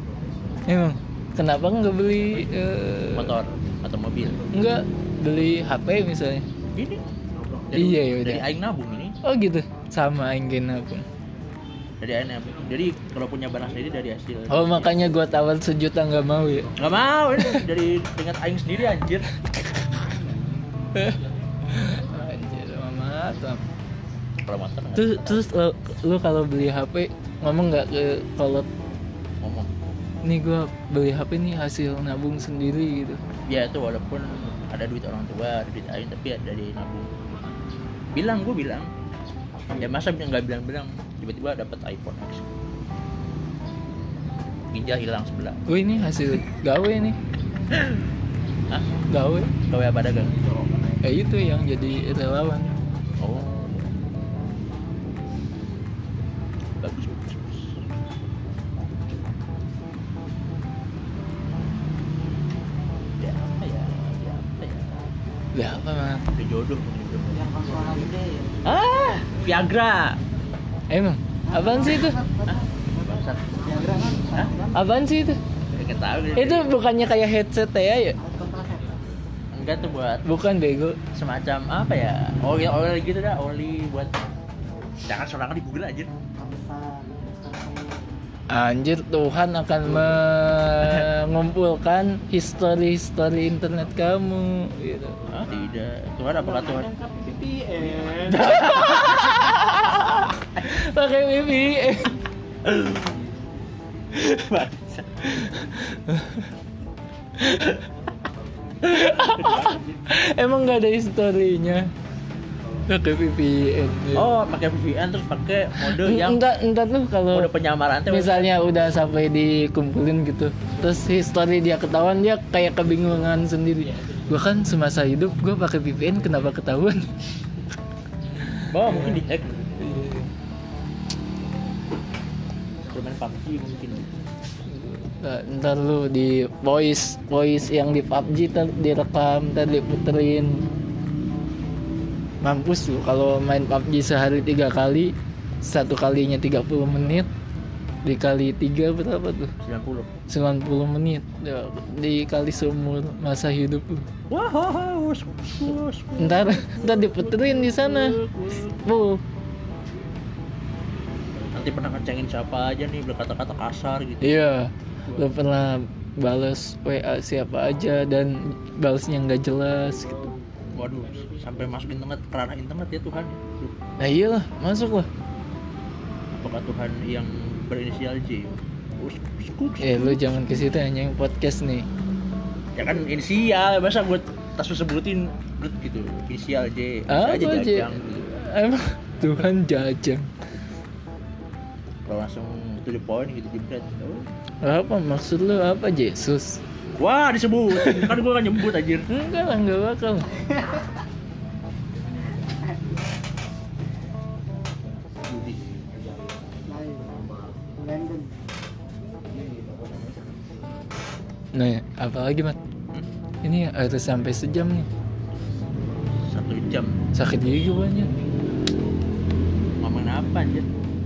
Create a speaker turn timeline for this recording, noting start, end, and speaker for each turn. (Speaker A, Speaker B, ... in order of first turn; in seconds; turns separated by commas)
Speaker A: 0.7-3.3, Speaker B: 3.1-4.4, Speaker A: 4.5-6.5, Speaker B: 6.8-7.0, Speaker B: 7.7-9.2, Speaker A: 7.7-8.4, Speaker A: 9.2-11.1, Speaker B: 12.0-15.0, Speaker A: 14.5-16.7, Speaker B: 16.8-19.3, Speaker A: 20.9-23.6, Speaker B: 24.4-25.5, Speaker A: 25.0-28.7, Speaker B: 29.4-29.7, Speaker A: 30.2-33.2, Speaker B: 33.5-37.1, Speaker B: 38.1-38.9, Speaker B: 39.8-42.5, Speaker B: 44.7-45.6, Speaker A: 45.7-47.2, Speaker B: 47.7-48.0, Speaker A: 49.1-49.5, Speaker B: 49.7-50.4, Speaker A: 51.0-52.7, Speaker B: 53.2-53.9, Speaker B: 56.8-57.8, Speaker B: 63.2-65.0, Speaker A: 65.5-66.2, Speaker B: 66.3-67.4, Speaker C: 67.3-68.7, Speaker B: 68.7-70.2, Speaker A: 70.9-72.2, Speaker C: 71.5-74.8, Speaker B: 72.5-73.5, Speaker A: 74.7-75.4, Speaker B: 75.7-76.7, Speaker A: 76.4-78.2, Speaker C: 78.2-78.9, Speaker B: 79.5-80.2, Speaker A: 80.3-81.0, Speaker B: 81.1-84.2, Speaker B: 85.1-86.1, Speaker C: 86.4-88.0, Speaker A: 88.5-95.2, Speaker B: 95.3-96.9, Speaker C: 96.4-98.5, Speaker B: 98.3-100.1, Speaker A: 98.4-102.2, Speaker B: 102.7-103.2, Speaker B: 104.3-105.2, Speaker A: 105.3-106.5, Speaker A: 107.4-107.8, Speaker A: 108.8-111.9, Speaker B: 109.2-109.8, Speaker A: 112.9-114.3, Speaker B: 114.1-116.4, Speaker A: 115.8-117.5, Speaker B: 117.3-118.5, Speaker A: 118.1-127.1, Speaker A: 128.3-129.2, Speaker B: 128.7-129.8, Speaker A: 129.8-130.3, Speaker B: 132.9-134.1, Speaker A: 134.7-140.7, Speaker A: 142.4-147.3, Speaker A: 148.1-149.5, Speaker B: 149.6-150.1, Speaker A: 150.3-154.1, Speaker B: 154.3-158.8, Speaker A: 156.2-158.2, Speaker A: 158.8-159.2, Speaker B: 161.5-164.4, Speaker A: 164.2-170.3, Speaker B: 170.8-173.8, Speaker A: 174.0-175.1, Speaker B: 176.3-180.3, Speaker A: 179.8-181.9, Speaker B: 182.8-188.3, Speaker A: 187.1-190.3, Speaker B: 192.1-194.3, Speaker A: 194.6-196.6, Speaker B: 197.0-199.1, Speaker A: 197.8-198.1, Speaker A: 199.1-200.3, Speaker B: 205.3-205.6, Speaker C: 206.7-207.1, Speaker C: 207.8-208.4, Speaker A: 211.6-212.6, Speaker A: 213.4-214.9, Speaker B: 216.2-217.0, Speaker A: 217.2-218.1, Speaker B: 219.8-220.7